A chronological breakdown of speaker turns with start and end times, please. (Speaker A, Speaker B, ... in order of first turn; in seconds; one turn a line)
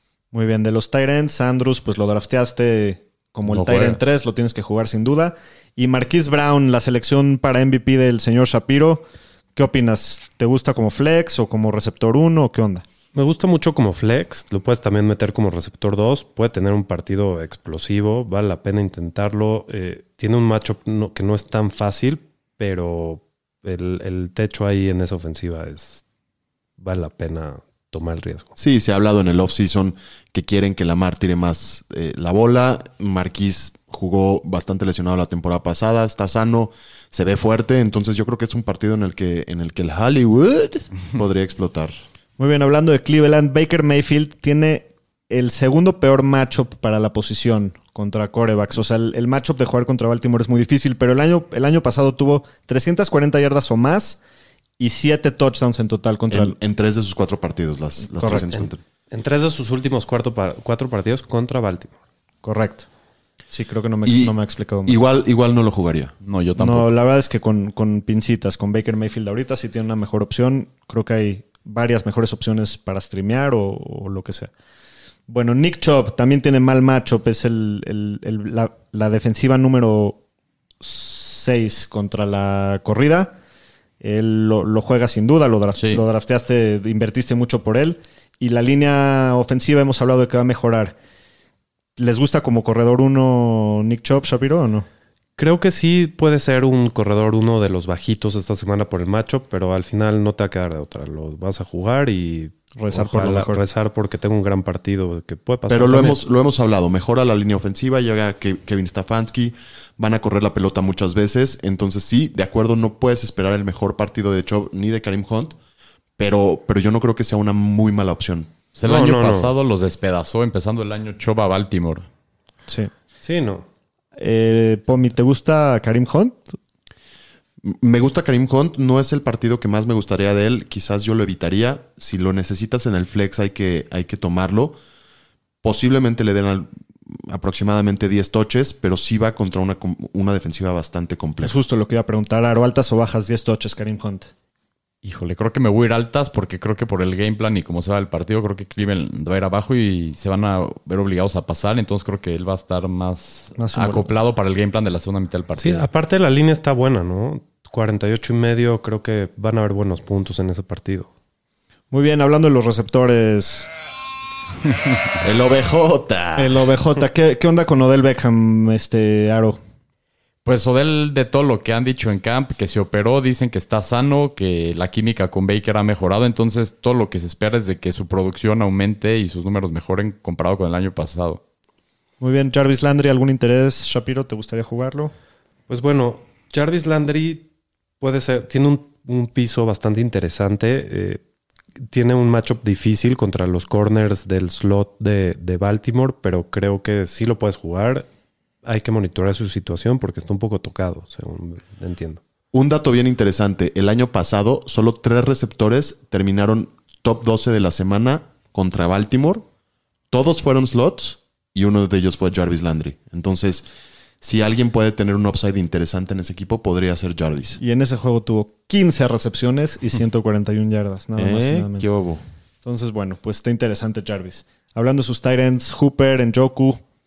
Speaker A: 0.3-9.0
Speaker B: 3.5-4.0
Speaker A: 9.6-12.8
Speaker C: 13.1-26.0
Speaker C: 26.8-28.5
Speaker D: 28.6-41.9
Speaker A: 42.4-54.2
Speaker A: 54.8-56.5
Speaker D: 56.3-58.8
Speaker A: 58.1-58.5
Speaker C: 58.3-62.0
Speaker A: 62.4-62.9
Speaker A: 63.5-65.0
Speaker D: 64.0-64.3
Speaker D: 64.8-66.1
Speaker B: 66.2-66.9
Speaker A: 66.6-74.5
Speaker A: 75.3-80.2
Speaker A: 80.8-83.3
Speaker A: 84.0-90.9
Speaker B: 85.8-86.0
Speaker A: 92.0-94.8
Speaker C: 95.4-106.2
Speaker A: 102.8-103.6
Speaker D: 105.7-115.6
Speaker D: 116.2-118.5
Speaker B: 118.7-122.0
Speaker C: 118.8-119.5
Speaker C: 123.2-123.7
Speaker A: 124.2-126.6
Speaker D: 127.6-134.8
Speaker D: 135.6-141.5
Speaker A: 141.4-144.3
Speaker B: 145.0-155.9
Speaker A: 153.6-154.1
Speaker C: 155.6-161.1
Speaker A: 161.9-163.7
Speaker D: 165.2-166.5
Speaker A: 166.3-169.6
Speaker B: 170.4-181.4
Speaker A: 182.2-185.1
Speaker C: 185.7-187.5
Speaker C: 188.0-191.2
Speaker C: 191.8-198.1
Speaker C: 198.6-202.2
Speaker D: 202.5-209.4
Speaker D: 210.1-213.7
Speaker D: 214.2-217.6
Speaker A: 217.6-221.8
Speaker D: 221.2-222.2
Speaker A: 222.6-226.8